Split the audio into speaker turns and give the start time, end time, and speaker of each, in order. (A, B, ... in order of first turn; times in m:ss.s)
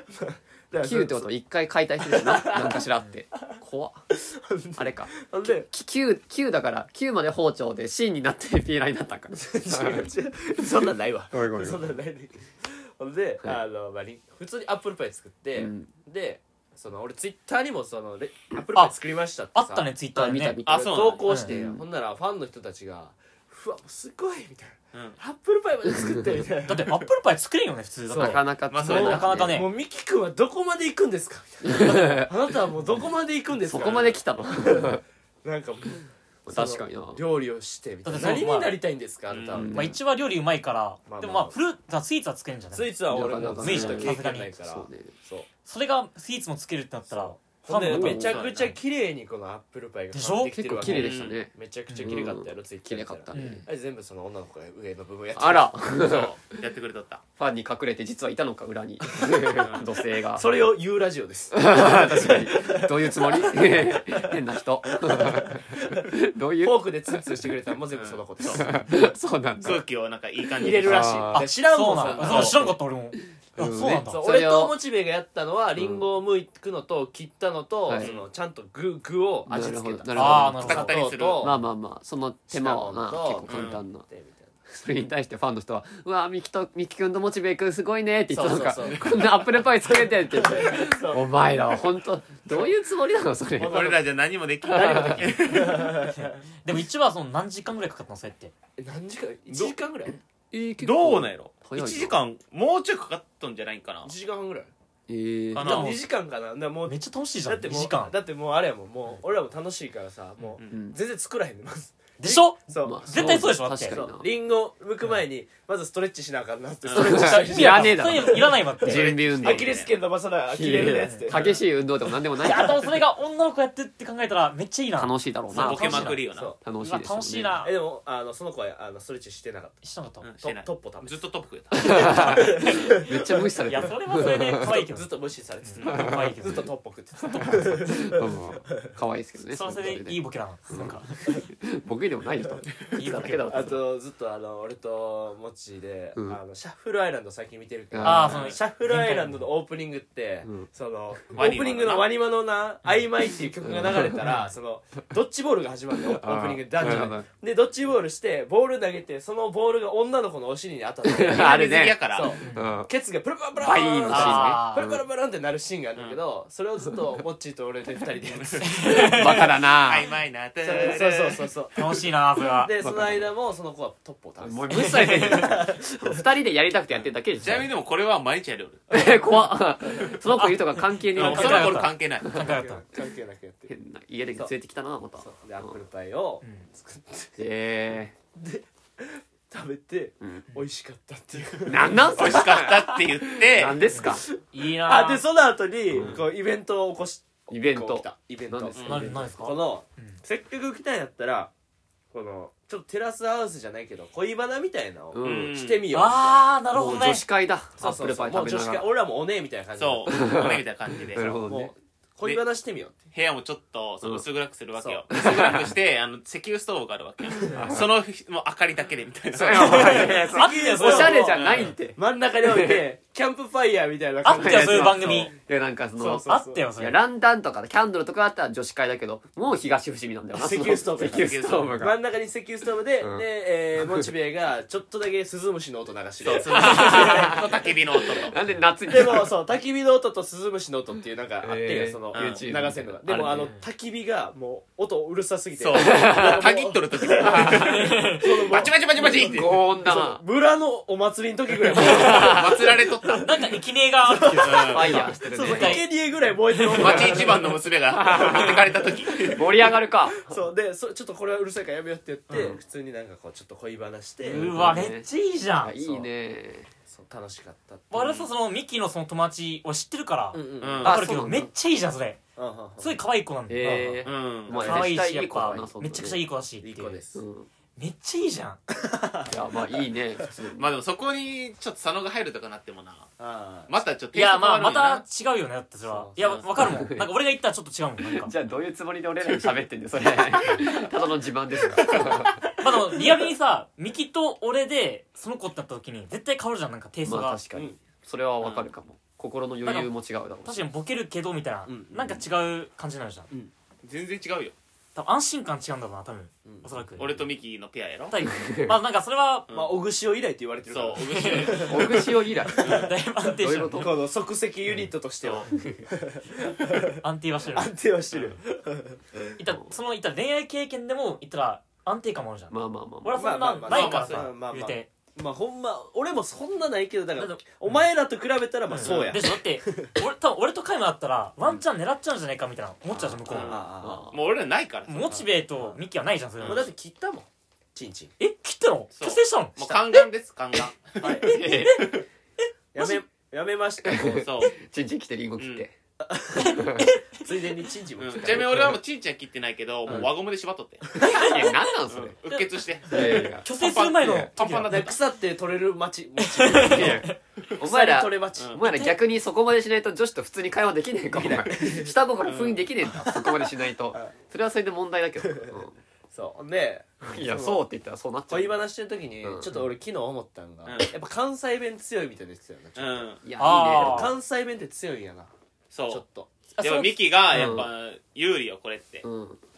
0:00.1-0:01.3 A
0:00.8-0:04.0 B
0:02.0-0:02.9 A
0:04.2-0:05.7 A
0:04.8-0:10.1 B
0:09.4-0:19.9 A
0:10.6-0:11.9 B
0:15.6-0:15.9 B
0:19.5-0:20.6 C
0:20.1-0:21.8 B
0:20.6-0:21.3 D
0:20.7-0:27.1 A
0:21.2-0:21.5 C
0:24.9-0:25.2 D
0:26.0-0:26.3 B
0:26.6-0:29.7 C
0:28.1-0:39.8 A
0:28.2-0:29.6 B
0:28.7-0:29.3 D
0:31.6-0:32.3 B
0:33.6-0:35.0 B
0:36.4-0:37.2 B
0:38.0-0:38.8 C
0:39.3-0:39.6 D
0:39.5-0:40.0 B
0:39.7-0:44.5 C
0:41.1-0:41.6 A
0:42.7-0:45.5 A
0:43.1-0:45.1 B
0:45.6-0:48.4 C
0:47.1-0:55.8 A
0:47.9-0:48.4 B
0:48.2-0:48.8 D
0:50.1-0:51.0 C
0:50.5-0:53.6 B
0:50.8-0:51.4 D
0:51.9-0:52.2 C
0:53.3-0:53.6 C
0:55.3-0:56.5 B
0:56.0-0:57.2 D
0:57.4-1:00.7 B
0:59.1-0:59.6 A
0:59.6-0:59.9 D
1:00.3-1:04.4 A
1:01.5-1:07.5 B
1:05.0-1:08.9 A
1:07.9-1:08.6 D
1:08.4-1:09.8 B
1:09.6-1:11.3 D
1:10.4-1:11.4 B
1:10.6-1:12.7 A
1:11.3-1:14.2 C
1:12.0-1:12.6 D
1:12.2-1:12.8 B
1:13.6-1:14.8 B
1:13.9-1:21.6 A
1:15.8-1:16.0 B
1:17.8-1:18.1 B
1:18.0-1:18.3 D
1:19.5-1:24.0 B
1:20.1-1:21.0 C
1:20.6-1:21.5 D
1:22.5-1:24.5 A
1:23.5-1:23.8 D
1:24.7-1:33.9 B
1:28.3-1:31.8 A
1:32.5-1:32.7 A
1:33.6-1:34.0 A
1:33.6-1:36.0 D
1:34.6-1:35.4 B
1:34.8-1:36.4 A
1:36.1-1:38.5 C
1:38.8-1:40.2 A
1:39.5-1:39.8 D
1:40.5-1:42.2 B
1:40.8-1:44.1 D
1:44.0-1:44.7 A
1:45.1-1:45.8 B
1:45.5-1:46.0 D
1:45.6-1:58.5 A
1:45.6-1:46.0 C
1:46.8-1:48.1 C
1:50.4-1:50.7 D
1:50.7-1:51.0 B
1:52.2-1:54.0 C
1:52.8-1:54.3 B
1:56.8-1:57.2 D
1:56.9-1:59.8 B
1:57.0-1:59.1 C
1:58.8-1:59.9 D
1:59.4-2:01.6 A
2:00.5-2:02.9 B
2:00.8-2:01.3 C
2:02.4-2:06.2 C
2:02.5-2:02.8 A
2:05.0-2:06.1 B
2:05.5-2:06.5 D
2:06.3-2:06.6 A
2:06.6-2:07.6 B
2:06.8-2:07.7 C
2:07.6-2:09.8 A
2:09.8-2:10.3 C
2:10.2-2:13.0 D
2:10.4-2:11.2 A
2:11.8-2:14.7 B
2:11.8-2:13.4 A
2:11.9-2:13.0 C
2:13.6-2:16.7 C
2:14.2-2:18.7 A
2:15.8-2:16.4 B
2:17.2-2:17.8 C
2:17.4-2:20.2 B
2:19.5-2:21.4 C
2:20.7-2:23.8 B
2:22.9-2:23.6 C
2:23.4-2:49.4 A
2:27.9-2:28.4 B
2:28.0-2:29.4 C
2:28.3-2:28.6 D
2:31.3-2:32.2 D
2:33.6-2:34.3 B
2:34.2-2:34.5 C
2:36.1-2:37.3 B
2:41.0-2:42.0 B
2:41.3-2:42.4 D
2:42.4-2:42.8 C
2:42.5-2:42.9 B
2:43.6-2:45.0 B
2:44.1-2:44.9 C
2:45.9-2:46.2 D
2:48.3-2:48.6 D
2:48.6-2:49.5 C
2:48.8-2:50.1 B
2:49.8-2:51.5 D
2:50.6-2:56.3 A
2:51.8-2:52.7 C
2:52.8-2:53.3 B
2:54.4-2:57.7 B
2:54.7-2:55.5 C
2:57.4-2:59.0 D
2:58.9-3:02.6 B
2:58.9-2:59.4 A
3:00.3-3:02.8 C
3:01.1-3:02.5 D
3:02.3-3:03.7 A
3:03.7-3:05.8 B
3:05.2-3:07.4 A
3:06.4-3:06.7 C
3:07.4-3:08.1 B
3:08.4-3:21.5 A
3:11.6-3:14.3 B
3:12.2-3:13.9 D
3:13.9-3:15.2 C
3:15.9-3:16.2 B
3:17.5-3:19.3 B
3:18.8-3:19.0 D
3:18.8-3:20.2 C
3:22.1-3:26.5 A
3:25.1-3:25.5 B
3:25.2-3:25.9 D
3:25.9-3:27.2 C
3:26.7-3:28.9 B
3:27.8-3:30.2 A
3:29.8-3:31.4 D
3:30.1-3:31.7 B
3:31.4-3:33.0 A
3:33.1-3:40.2 D
3:34.8-3:35.0 A
3:35.1-3:35.7 B
3:37.4-3:37.8 A
3:37.5-3:37.9 B
3:39.3-3:42.8 B
3:39.4-3:45.3 A
3:39.5-3:41.4 C
3:41.2-3:41.7 D
3:44.2-3:45.3 C
3:44.3-3:52.0 B
3:46.0-3:46.6 A
3:46.2-3:47.0 C
3:50.3-3:57.4 A
3:51.0-3:51.8 D
3:53.0-3:54.1 B
3:56.2-3:58.4 D
3:56.4-3:59.3 B
3:58.9-4:13.3 A
4:01.4-4:03.5 B
4:02.1-4:02.5 D
4:03.4-4:03.6 C
4:05.6-4:09.6 D
4:05.7-4:06.5 B
4:07.2-4:07.8 B
4:07.5-4:08.3 C
4:09.0-4:10.2 B
4:11.7-4:12.6 B
4:11.7-4:13.3 D
4:13.2-4:15.9 C
4:14.1-4:17.5 A
4:14.4-4:15.0 D
4:14.6-4:15.8 B
4:16.5-4:17.2 C
4:16.7-4:19.5 D
4:16.8-4:17.2 B
4:17.9-4:18.7 B
4:18.1-4:24.7 A
4:19.3-4:20.4 B
4:22.3-4:22.6 B
4:24.2-4:26.7 B
4:24.3-4:25.7 C
4:25.8-4:26.1 A
4:26.9-4:27.9 A
4:27.9-4:32.2 C
4:27.9-4:28.3 D
4:30.3-4:30.9 A
4:30.6-4:31.0 D
4:30.8-4:31.5 B
4:32.4-4:33.0 A
4:32.8-4:37.0 C
4:33.5-4:36.2 B
4:34.0-4:34.7 D
4:34.5-4:35.6 A
4:36.6-4:37.2 A
4:37.1-4:37.5 B
4:37.8-4:38.6 C
4:38.8-4:39.8 A
4:39.3-4:40.7 B
4:40.6-4:43.1 D
4:43.2-4:43.7 A
4:43.7-4:45.0 D
4:44.1-4:48.3 C
4:45.8-4:46.4 A
4:46.5-4:47.1 B
4:48.0-4:52.4 B
4:51.8-4:52.3 A
4:52.6-4:57.4 C
4:57.0-5:00.6 B
4:58.4-4:58.7 D
4:59.6-4:59.9 C
5:00.4-5:03.3 C
5:01.6-5:02.2 A
5:03.8-5:04.5 D
5:04.9-5:07.2 C
5:07.0-5:08.1 D
5:08.1-5:09.5 C
5:08.2-5:08.8 B
5:09.5-5:09.8 D
5:09.5-5:12.9 A
5:10.7-5:12.0 D
5:11.0-5:11.7 C
5:11.6-5:14.0 B
5:12.6-5:13.9 C
5:12.6-5:12.9 D
5:13.7-5:17.0 A
5:15.2-5:15.5 D
5:15.5-5:15.8 B
5:17.0-5:17.7 C
5:17.5-5:19.3 A
5:19.4-5:24.9 C
5:22.5-5:23.4 B
5:23.1-5:29.9 A
5:23.7-5:24.3 D
5:27.2-5:27.8 C
5:28.7-5:33.6 C
5:28.8-5:29.2 D
5:33.2-5:34.1 A
5:33.3-5:35.2 D
5:33.8-5:34.2 B
5:34.9-5:36.7 C
5:35.0-5:35.8 A
5:36.4-5:36.7 D
5:36.4-5:38.1 A
5:38.2-5:40.1 C
5:38.9-5:41.4 D
5:41.0-5:41.4 A
5:41.2-5:42.0 C
5:41.2-5:41.9 B
5:42.7-5:44.3 A
5:43.8-5:45.7 B
5:44.2-5:44.6 D
5:45.4-5:45.6 D
5:46.0-5:48.8 A
5:46.3-5:47.3 C
5:46.4-5:46.9 B
5:48.0-5:51.0 D
5:48.4-5:48.8 B
5:50.9-5:51.3 A
5:51.0-5:52.2 B
5:51.0-5:51.6 C
5:51.9-5:55.0 D
5:52.3-5:54.9 C
5:52.9-5:54.3 B
5:54.7-5:58.6 A
5:56.2-5:57.2 C
5:56.6-6:05.7 B
5:58.4-5:58.6 D
5:58.6-5:59.0 C
6:01.1-6:02.0 A
6:02.2-6:02.6 D
6:02.8-6:04.1 A
6:05.3-6:07.6 A
6:07.0-6:08.6 B
6:08.3-6:13.1 A
6:09.2-6:09.6 B
6:10.6-6:10.9 D
6:12.8-6:13.2 D
6:13.2-6:14.1 B
6:13.4-6:14.1 C
6:13.6-6:15.3 A
6:15.7-6:16.0 D
6:15.9-6:16.3 A
6:16.6-6:17.6 C
6:16.6-6:19.0 D
6:17.3-6:17.7 B
6:19.0-6:19.4 B